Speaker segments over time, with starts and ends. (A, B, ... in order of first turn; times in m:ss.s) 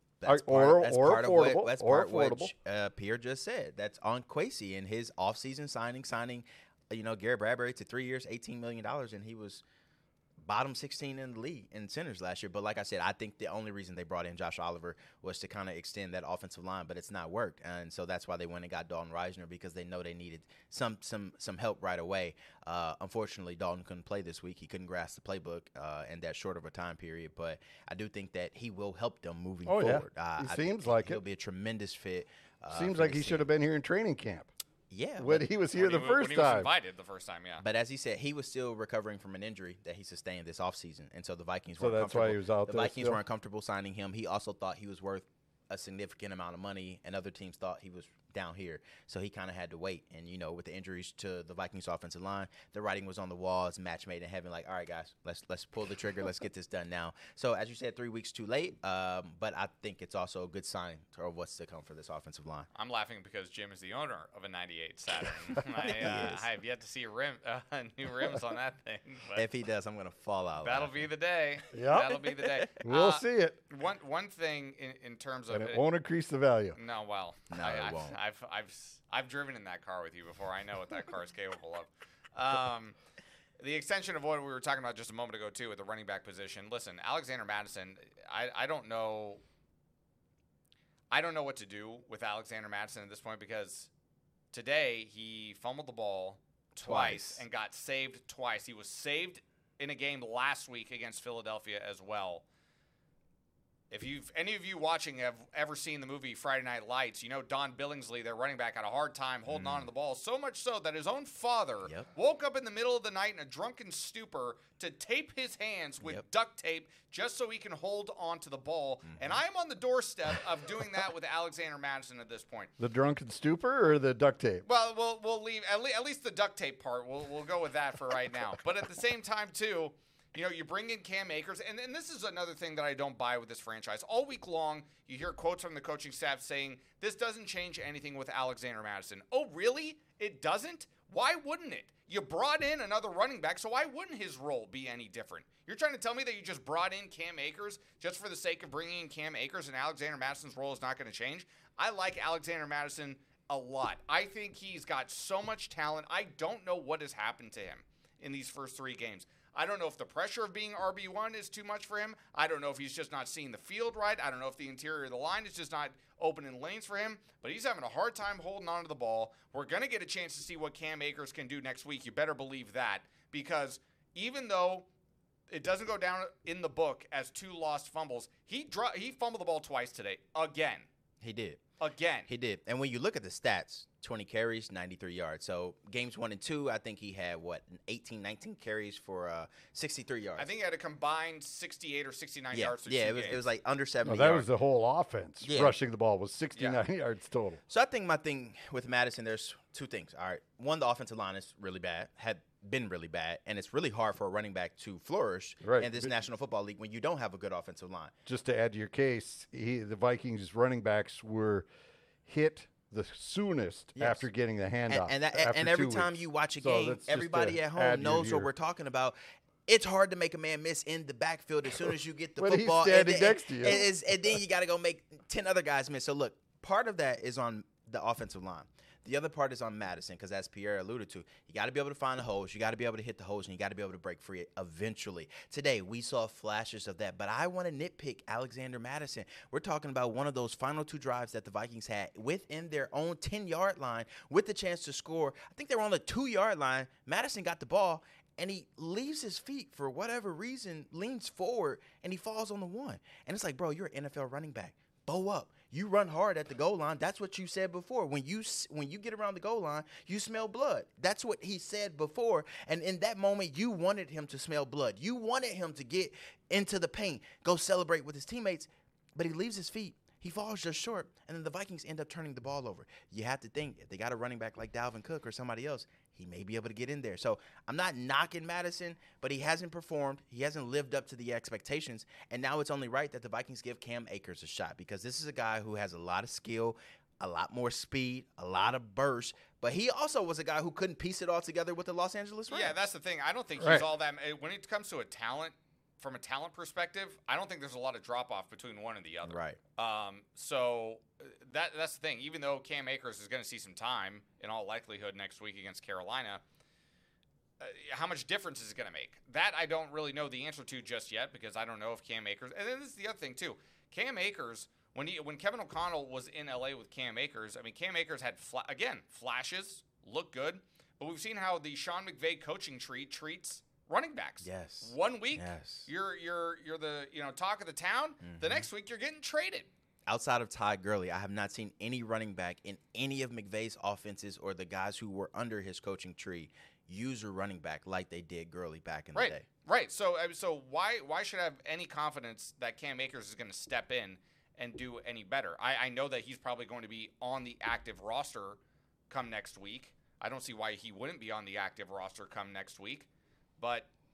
0:00.2-0:09.6 A
0:00.2-0:02.5 B
0:10.4-0:33.4 A
0:29.7-0:31.2 B
0:32.7-0:34.5 B
0:34.9-0:35.5 A
0:35.2-0:36.7 B
0:35.8-0:37.6 C
0:37.6-1:02.7 A
0:41.8-0:43.2 B
1:02.7-1:09.4 C
1:05.4-1:06.5 A
1:09.3-1:11.0 A
1:10.6-1:15.8 C
1:11.7-1:12.2 B
1:12.3-1:12.7 A
1:12.8-1:13.6 B
1:15.5-1:16.8 B
1:16.8-1:23.0 C
1:17.5-1:18.2 A
1:23.6-1:29.4 C
1:31.1-1:33.9 C
1:34.5-1:42.4 C
1:36.8-1:37.4 A
1:43.9-2:02.7 C
1:49.5-1:49.9 A
1:59.1-1:59.4 A
2:02.8-2:04.6 B
2:04.7-2:54.8 C
2:55.5-3:00.9 C
3:01.2-3:01.6 A
3:01.8-3:02.3 C
3:02.3-3:10.5 A
3:10.4-3:13.4 C
3:12.5-3:14.5 A
3:14.0-3:17.6 B
3:15.4-3:15.8 A
3:17.7-3:28.2 A
3:25.6-3:26.0 B
3:28.3-3:31.6 B
3:32.2-3:36.1 B
3:34.0-3:34.3 A
3:34.9-3:39.2 A
3:36.6-3:38.5 B
3:39.7-4:52.8 A
3:42.4-3:43.8 B
4:52.5-5:06.4 C
4:53.6-4:53.8 B
4:59.3-4:59.6 A
5:07.6-5:29.7 C
5:24.4-5:25.9 A
5:28.2-5:28.7 A
5:30.1-5:39.4 A
5:39.2-5:48.6 C
5:49.1-5:53.1 C
5:53.6-5:53.9 C